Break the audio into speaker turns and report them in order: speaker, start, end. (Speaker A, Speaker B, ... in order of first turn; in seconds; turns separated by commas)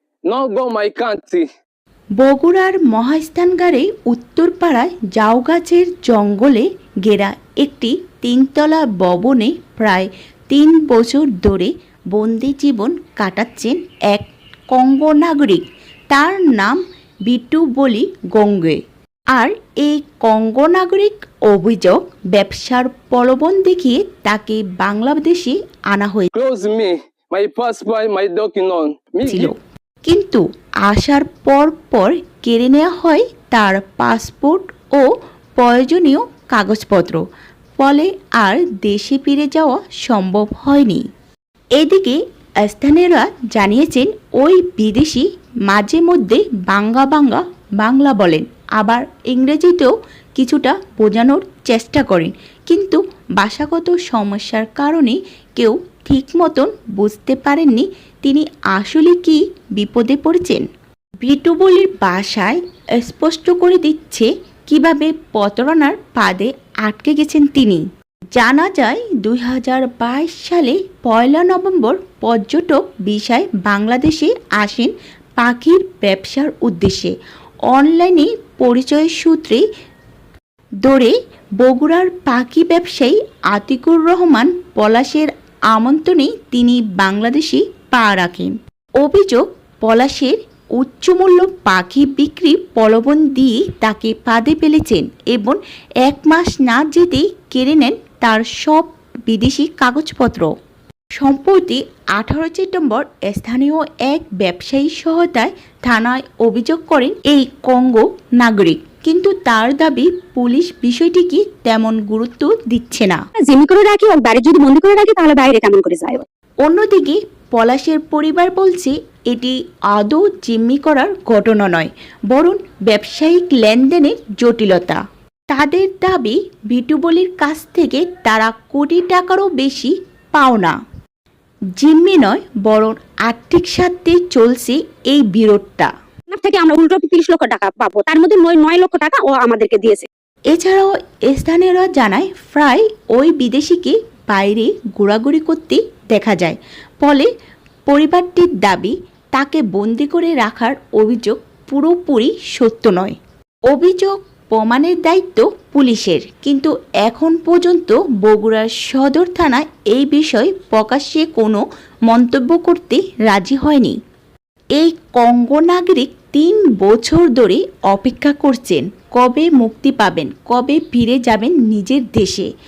Speaker A: 0.3-1.5, Speaker B: 2.2-18.8, Speaker B: 19.3-26.3, Speaker A: 26.3-29.5, Speaker B: 29.3-37.2, Speaker B: 37.8-41.0, Speaker B: 41.8-60.6, Speaker B: 61.2-67.8, Speaker B: 68.3-77.1, Speaker B: 77.7-79.6, Speaker B: 80.8-100.5, Speaker B: 101.2-113.2, Speaker C: 113.5-116.2, Speaker B: 116.6-130.8, Speaker B: 131.8-135.9, Speaker C: 136.3-140.1, Speaker B: 140.5-147.3, Speaker B: 147.9-153.2, Speaker B: 153.7-163.9, Speaker B: 164.8-172.5